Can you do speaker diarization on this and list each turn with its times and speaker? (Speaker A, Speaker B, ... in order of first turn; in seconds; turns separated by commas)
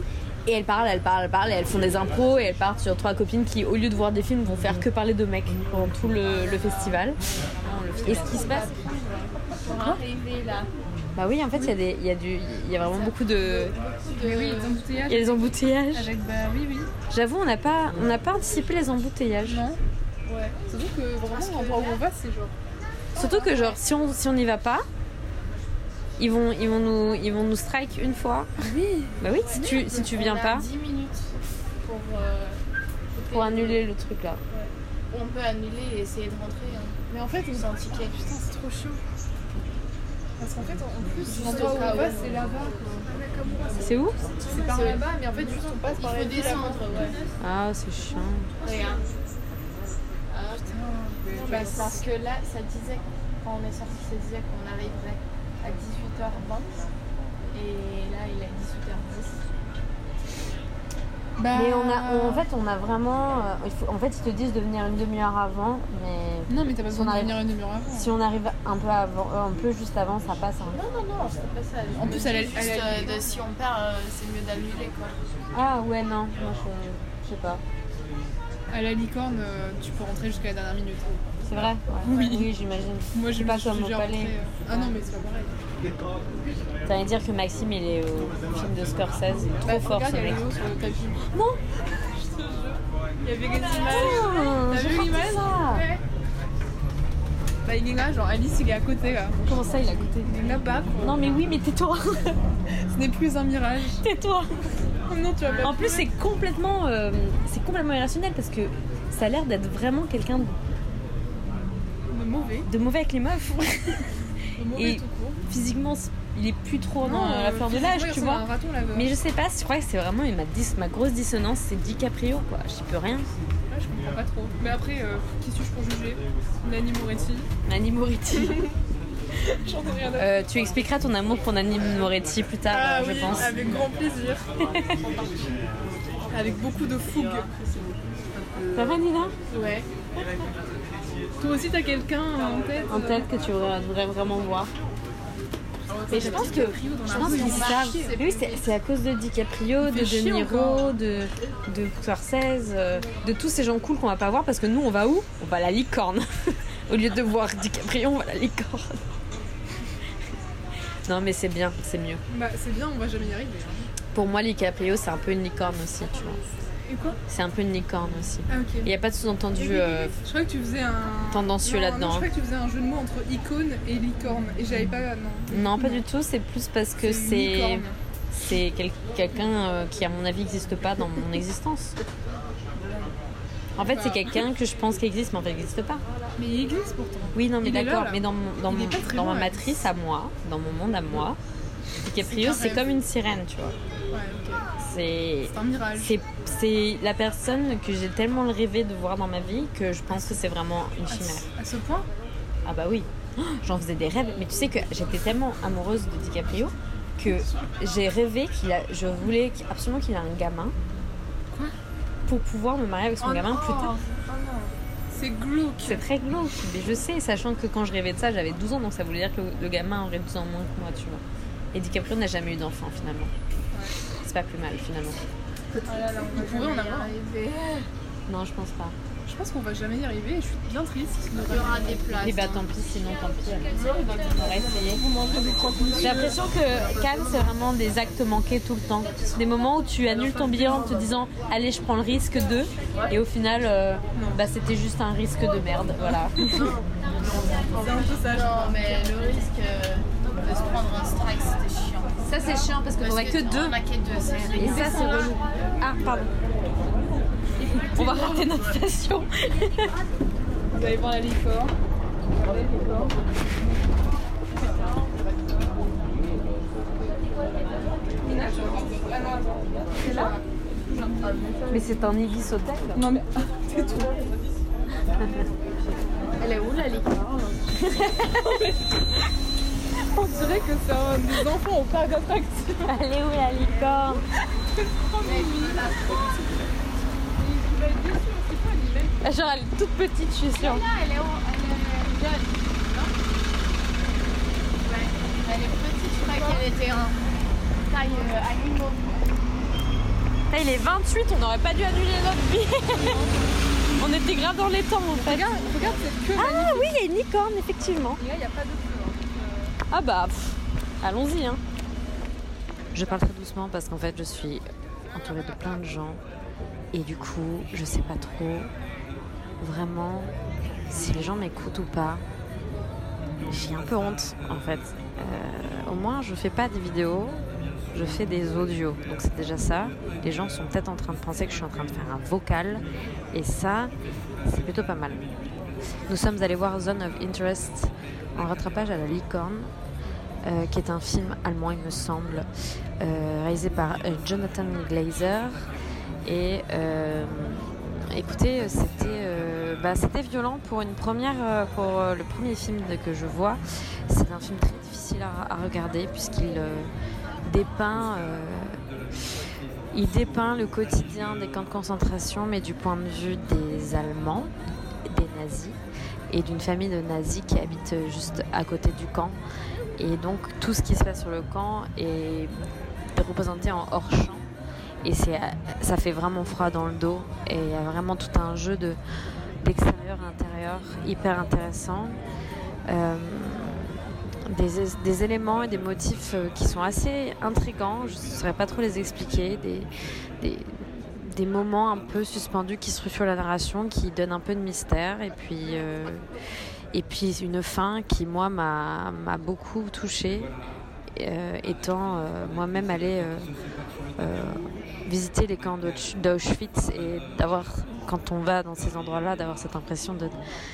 Speaker A: 0.5-8.7, Speaker B: 6.2-7.0, Speaker B: 7.9-10.7, Speaker C: 7.9-8.7, Speaker A: 11.2-13.7, Speaker B: 12.8-13.1, Speaker B: 13.8-14.9, Speaker C: 13.9-16.9, Speaker A: 15.1-16.1, Speaker A: 17.1-19.6, Speaker C: 19.5-19.8, Speaker B: 20.3-20.6, Speaker C: 20.7-22.6, Speaker B: 21.2-22.0, Speaker A: 23.2-24.9, Speaker B: 23.2-23.8, Speaker A: 26.2-28.5, Speaker C: 28.6-30.1, Speaker A: 29.2-30.6, Speaker B: 29.4-32.6, Speaker B: 33.1-33.8, Speaker A: 33.3-34.4, Speaker B: 35.1-38.4, Speaker C: 37.1-39.0, Speaker C: 40.4-43.1, Speaker B: 41.2-43.9, Speaker A: 43.8-44.2, Speaker B: 44.4-47.3, Speaker C: 44.5-47.1, Speaker A: 47.4-48.5, Speaker B: 48.6-49.1, Speaker C: 48.6-49.1, Speaker B: 50.3-56.9, Speaker C: 50.7-52.1, Speaker B: 57.5-59.4, Speaker C: 61.4-62.5, Speaker A: 61.5-67.4, Speaker C: 66.5-68.2, Speaker A: 67.9-70.8, Speaker B: 70.7-75.2, Speaker C: 72.0-73.3, Speaker A: 75.5-77.6, Speaker C: 78.7-81.2, Speaker A: 81.5-84.9, Speaker C: 82.0-82.5, Speaker C: 83.1-85.5, Speaker A: 86.9-90.5, Speaker C: 89.6-91.2, Speaker A: 91.3-91.6, Speaker C: 92.2-95.6, Speaker A: 93.5-95.9, Speaker B: 93.6-94.0, Speaker B: 95.7-96.0, Speaker C: 97.7-99.4, Speaker A: 99.5-102.4, Speaker C: 100.2-101.3, Speaker C: 102.9-104.0, Speaker A: 104.0-104.6, Speaker C: 105.1-106.1, Speaker B: 105.4-105.7, Speaker A: 105.6-110.6, Speaker C: 112.1-112.7, Speaker A: 112.7-114.0, Speaker C: 114.6-115.4, Speaker A: 114.7-123.3, Speaker C: 117.0-119.1, Speaker C: 123.7-127.5, Speaker A: 127.7-128.6, Speaker C: 128.3-128.8, Speaker C: 129.5-130.4, Speaker A: 130.2-133.7, Speaker C: 132.7-134.5, Speaker C: 136.3-137.9, Speaker C: 138.4-138.8, Speaker A: 138.7-139.3, Speaker B: 139.5-139.9, Speaker C: 141.4-143.2, Speaker A: 142.9-144.7, Speaker C: 145.9-148.3, Speaker A: 146.1-156.2, Speaker B: 146.1-148.6, Speaker C: 149.8-151.0, Speaker A: 156.9-159.0, Speaker A: 161.1-162.2, Speaker C: 162.3-163.9, Speaker A: 164.1-166.4, Speaker C: 166.9-167.2, Speaker A: 167.3-170.1, Speaker C: 168.5-168.9, Speaker C: 169.5-176.1, Speaker A: 171.3-172.3, Speaker A: 175.5-181.9, Speaker C: 177.0-178.0, Speaker C: 182.8-183.1, Speaker A: 183.8-186.0, Speaker C: 183.8-184.4, Speaker C: 186.4-189.8, Speaker A: 187.3-191.4, Speaker A: 192.0-193.8, Speaker C: 192.3-192.8, Speaker C: 194.1-194.7, Speaker A: 194.8-201.5, Speaker C: 195.5-196.2, Speaker C: 200.1-200.4, Speaker C: 201.1-202.1, Speaker A: 202.7-210.8, Speaker C: 207.2-207.7, Speaker A: 212.3-214.0, Speaker C: 213.2-216.0, Speaker A: 215.8-221.2, Speaker A: 221.7-223.3, Speaker C: 223.7-224.0, Speaker A: 224.2-225.2, Speaker C: 225.8-227.2, Speaker B: 225.9-227.9, Speaker A: 228.3-228.9, Speaker C: 229.2-232.6, Speaker B: 231.4-232.6, Speaker A: 232.2-235.0, Speaker B: 233.7-236.8, Speaker C: 233.7-234.0, Speaker C: 234.9-236.6, Speaker A: 236.0-246.7, Speaker C: 240.1-241.1, Speaker C: 244.2-244.4, Speaker C: 246.0-246.8, Speaker B: 247.2-252.3, Speaker C: 247.7-248.9, Speaker A: 252.2-253.8, Speaker C: 252.4-252.7, Speaker B: 252.9-255.2, Speaker A: 254.6-256.3, Speaker C: 254.6-255.4, Speaker C: 257.8-258.4, Speaker A: 257.9-259.9, Speaker C: 260.7-261.7, Speaker C: 262.4-263.1, Speaker C: 264.5-265.0, Speaker C: 268.2-271.5, Speaker A: 270.1-270.3, Speaker B: 271.2-271.9, Speaker A: 271.7-273.1, Speaker C: 272.9-274.4, Speaker B: 275.9-277.7, Speaker A: 277.8-278.6, Speaker C: 278.4-278.8, Speaker C: 280.1-282.9, Speaker A: 282.9-284.2, Speaker B: 283.6-284.0, Speaker C: 284.8-286.4, Speaker B: 285.2-286.6, Speaker C: 287.4-289.2, Speaker A: 289.2-290.9, Speaker B: 290.6-293.1, Speaker B: 294.8-297.2, Speaker C: 296.2-296.7, Speaker B: 297.9-299.3, Speaker C: 298.1-298.4, Speaker A: 300.5-303.2, Speaker C: 302.9-303.5, Speaker A: 303.9-305.5, Speaker C: 305.1-306.9, Speaker A: 306.4-308.2, Speaker C: 308.2-309.7, Speaker A: 309.9-311.6, Speaker A: 312.9-316.2, Speaker C: 312.9-313.2, Speaker A: 316.9-318.7, Speaker A: 319.6-320.3, Speaker A: 320.9-322.2, Speaker A: 323.5-327.4, Speaker A: 327.9-333.9, Speaker A: 334.4-335.2, Speaker A: 336.1-339.7, Speaker A: 340.4-342.5, Speaker A: 343.0-345.7, Speaker A: 346.2-356.9, Speaker A: 357.4-358.8, Speaker A: 359.9-364.5, Speaker A: 365.1-365.8, Speaker A: 366.3-369.4, Speaker A: 370.0-372.6, Speaker A: 373.1-374.5, Speaker A: 375.0-379.0, Speaker A: 379.6-382.2, Speaker A: 382.9-383.9, Speaker A: 384.5-389.9, Speaker A: 390.4-396.3, Speaker A: 396.9-400.5, Speaker A: 401.2-403.5, Speaker A: 404.2-410.4